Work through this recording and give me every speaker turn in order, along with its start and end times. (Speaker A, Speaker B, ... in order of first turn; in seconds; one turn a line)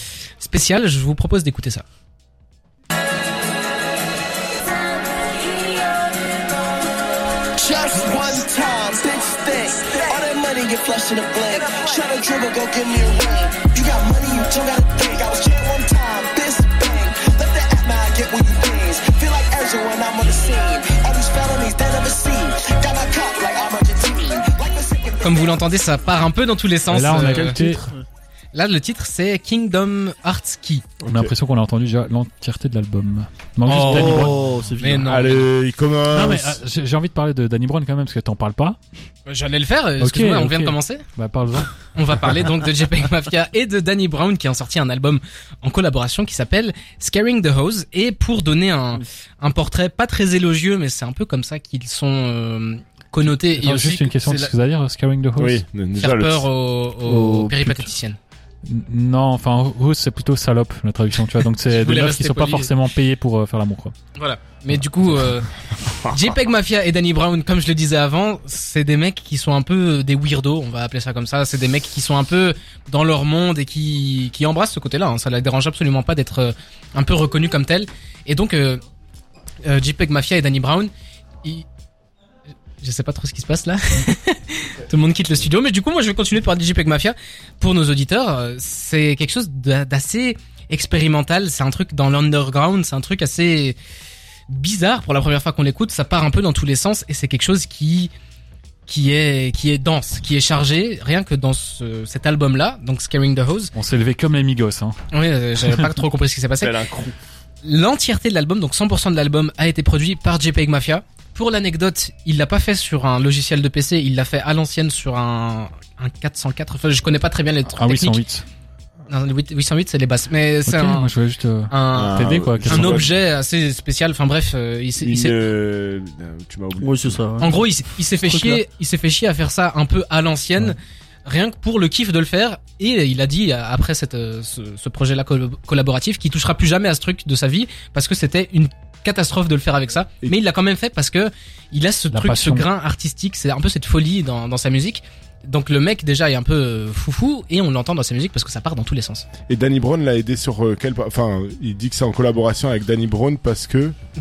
Speaker A: 0.4-1.8
Speaker B: 7.6-25.4
Speaker A: 25.2-27.6
Speaker C: 26.9-27.9
Speaker D: 27.3-27.9
Speaker A: 28.5-30.9
Speaker D: 31.0-31.3
Speaker C: 31.0-34.4
Speaker D: 33.6-34.3
Speaker E: 33.9-35.1
Speaker A: 34.8-35.5
Speaker D: 35.0-36.6
Speaker C: 36.1-38.8
Speaker A: 39.3-41.0
Speaker C: 40.0-41.7
Speaker A: 41.8-54.5
Speaker C: 53.6-55.6
Speaker D: 55.4-56.5
Speaker A: 56.0-58.2
Speaker C: 57.0-57.9
Speaker C: 58.6-63.9
Speaker A: 61.7-62.7
Speaker A: 64.2-65.5
Speaker A: 66.0-78.8
Speaker A: 79.6-80.9
Speaker A: 82.8-93.8
Speaker A: 94.5-98.1
Speaker A: 98.9-103.7
Speaker C: 103.7-105.0
Speaker A: 105.1-106.8
Speaker D: 106.6-107.1
Speaker A: 107.6-118.2
Speaker C: 117.7-118.5
Speaker A: 119.1-121.1
Speaker C: 120.7-123.1
Speaker A: 121.7-125.4
Speaker D: 121.9-123.1
Speaker D: 125.0-127.5
Speaker E: 126.8-127.5
Speaker A: 127.4-149.2
Speaker E: 128.2-128.6
Speaker C: 142.1-142.7
Speaker D: 149.5-153.9